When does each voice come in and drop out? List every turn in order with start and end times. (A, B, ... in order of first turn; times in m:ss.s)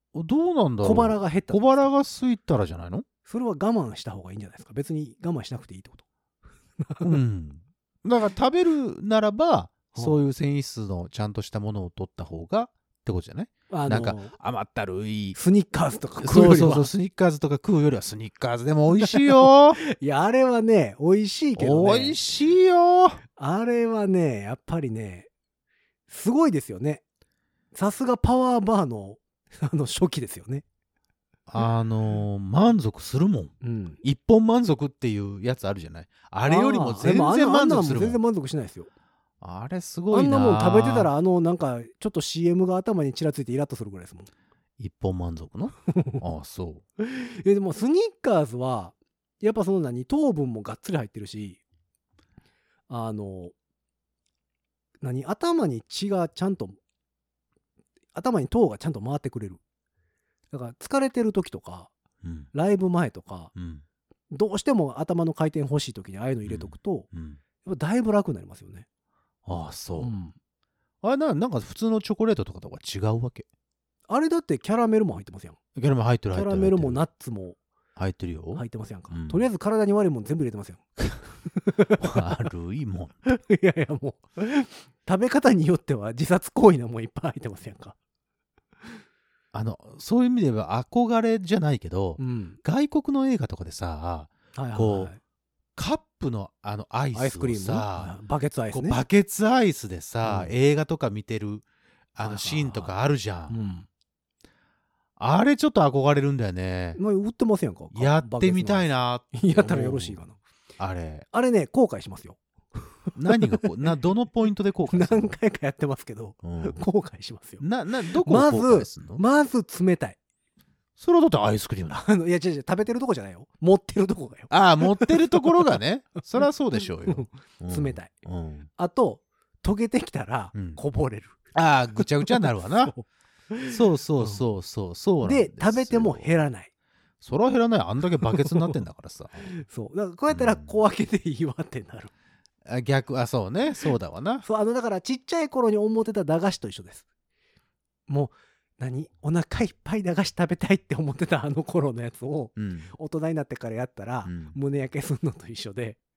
0:00.1-0:03.0 A
0:00.8-0:01.9 B
0:03.2-0:06.0 B
0:06.8-0:07.1 B
0:07.0-0:15.4 A
0:13.7-0:14.3 B
0:15.3-0:16.9 B
0:16.2-0:19.8 A
0:19.0-0:22.2 B
0:21.6-0:23.2 A
0:23.4-0:25.3 B
0:26.1-0:27.0 B
0:27.7-0:30.6 B
0:31.5-0:38.2 A
0:33.6-0:34.0 B
0:36.4-0:38.9 B
0:39.4-0:41.1 A
0:40.1-0:44.3 B
0:44.8-0:46.8 A
0:45.9-0:46.2 B
0:47.0-0:51.6 B
0:52.9-0:53.5 B
0:55.0-0:56.8 B
0:58.1-0:59.6 B
1:00.5-1:01.9 B
1:02.2-1:02.5 A
1:02.5-1:03.5 B
1:03.5-1:03.8 A
1:04.3-1:07.1 B
1:06.4-1:07.4 A
1:07.6-1:08.8 B
1:09.4-1:10.1 A
1:10.0-1:10.3 B
1:11.0-1:13.4 A
1:14.1-1:15.6 B
1:15.7-1:17.0 A
1:16.3-1:17.6 B
1:18.0-1:19.4 A
1:18.5-1:22.3 B
1:22.0-1:23.2 A
1:23.2-1:28.0 B
1:29.5-1:35.1 A
1:32.2-1:32.6 B
1:34.5-1:35.2 B
1:35.8-1:38.1 A
1:37.1-1:39.0 B
1:38.7-1:43.6 A
1:40.2-1:40.5 B
1:42.2-1:42.9 B
1:43.5-1:43.9 B
1:45.2-1:47.0 A
1:47.0-1:50.4 B
1:47.9-1:50.2 A
1:50.8-1:51.2 A
1:51.3-1:53.7 B
1:53.1-1:55.3 A
1:54.9-2:00.2 B
1:56.4-1:56.8 A
1:57.6-1:59.2 A
2:01.0-2:02.0 A
2:01.9-2:05.6 B
2:04.5-2:08.7 A
2:06.8-2:08.1 B
2:08.8-2:11.4 B
2:10.5-2:10.8 A
2:11.5-2:12.9 A
2:11.9-2:14.4 B
2:13.7-2:16.3 A
2:15.2-2:16.7 B
2:17.2-2:19.4 A
2:18.2-2:18.8 B
2:19.4-2:22.1 B
2:20.3-2:20.8 A
2:22.6-2:24.4 A
2:24.4-2:27.0 B
2:28.1-2:36.0 B
2:32.6-2:32.9 A
2:34.2-2:34.6 A